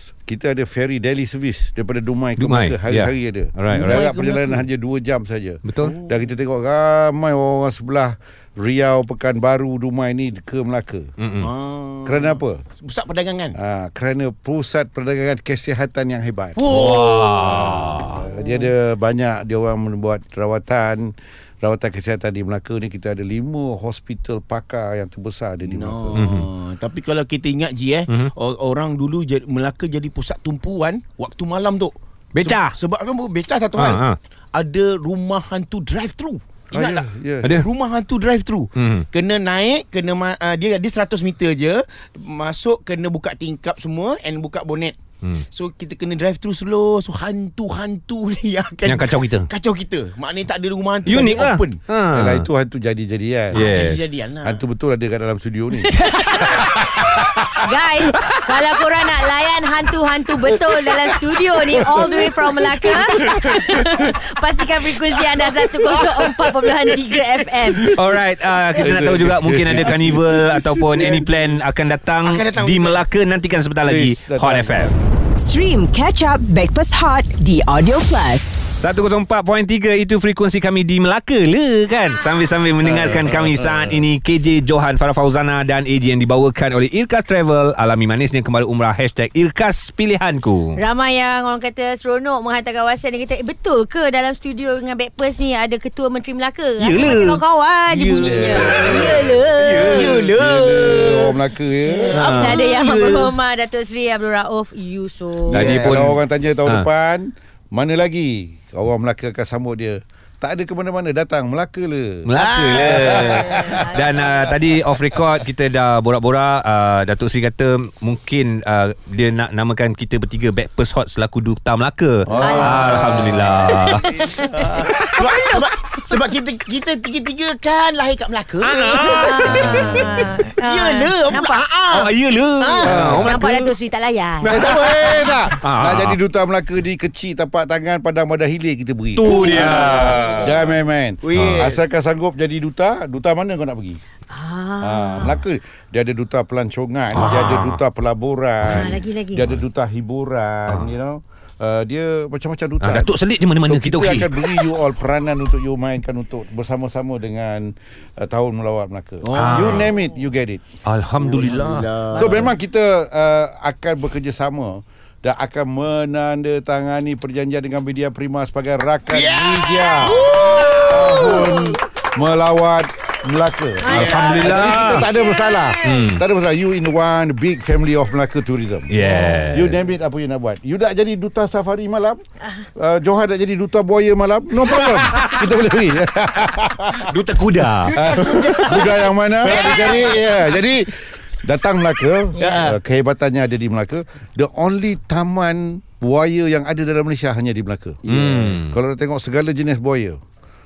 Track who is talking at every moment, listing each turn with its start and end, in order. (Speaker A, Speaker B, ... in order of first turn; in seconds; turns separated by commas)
Speaker A: 0.2-11.1, Speaker B: 2.4-4.0, Speaker C: 3.7-4.6, Speaker B: 5.6-5.9, Speaker C: 5.8-6.3, Speaker B: 11.2-11.5, Speaker C: 11.4-13.6, Speaker A: 12.0-12.6, Speaker A: 13.6-26.2, Speaker C: 16.6-18.7, Speaker B: 16.6-18.2, Speaker C: 25.6-45.0, Speaker B: 26.1-26.5, Speaker B: 32.4-32.8, Speaker B: 33.7-34.2, Speaker A: 36.7-37.5, Speaker B: 37.4-37.7, Speaker B: 38.8-39.0, Speaker C: 45.5-51.8, Speaker B: 48.8-49.5, Speaker B: 51.0-52.5, Speaker A: 52.1-53.9, Speaker B: 53.5-54.0, Speaker C: 53.5-54.6, Speaker A: 54.4-56.0, Speaker D: 56.0-56.4, Speaker D: 57.5-67.9, Speaker A: 61.8-62.2, Speaker C: 65.6-66.9, Speaker B: 67.9-74.9, Speaker A: 68.8-71.1, Speaker C: 72.2-73.0, Speaker A: 73.8-75.0, Speaker E: 75.4-78.6, Speaker B: 78.8-90.8, Speaker A: 82.8-84.0, Speaker D: 90.8-100.1, Speaker B: 96.8-97.4, Speaker C: 97.9-103.3, Speaker A: 98.2-99.5, Speaker B: 98.5-100.3, Speaker A: 100.2-102.2, Speaker B: 102.1-102.6, Speaker D: 102.3-105.6, Speaker C: 105.5-106.1, Speaker B: 105.5-106.9, Speaker A: 105.7-113.9, Speaker B: 112.2-124.1, Speaker C: 112.4-113.8, Speaker D: 113.2-114.0, Speaker A: 122.3-123.7, Speaker D: 122.3-123.3, Speaker C: 122.3-123.7, Speaker D: 123.8-125.2, Speaker C: 124.2-133.7, Speaker B: 124.7-125.0, Speaker B: 128.6-129.9, Speaker D: 129.2-131.6, Speaker A: 129.5-130.2, Speaker B: 131.9-133.6, Speaker A: 132.8-133.3, Speaker D: 133.2-134.5, Speaker B: 134.4-136.2, Speaker A: 134.4-144.0, Speaker C: 134.5-135.2, Speaker B: 139.1-140.6, Speaker C: 139.2-141.9, Speaker D: 144.3-145.3, Speaker A: 144.8-160.6, Speaker B: 147.1-147.8, Speaker C: 147.2-147.7, Speaker B: 148.6-149.0, Speaker D: 148.7-149.4, Speaker B: 150.7-150.9, Speaker B: 152.8-154.7, Speaker C: 159.2-159.9, Speaker B: 159.3-159.9, Speaker B: 160.8-162.5, Speaker C: 161.2-162.5, Speaker A: 162.1-170.3, Speaker C: 169.1-171.8, Speaker A: 170.8-182.2, Speaker D: 173.8-176.0, Speaker B: 173.9-175.1, Speaker C: 173.9-174.4, Speaker B: 175.8-176.2, Speaker B: 178.9-179.8, Speaker A: 182.7-187.1, Speaker B: 187.1-188.8, Speaker C: 187.8-190.6, Speaker A: 187.9-200.2, Speaker B: 189.4-189.9, Speaker D: 192.3-192.7, Speaker C: 192.4-192.8, Speaker C: 198.0-198.6, Speaker B: 198.1-198.7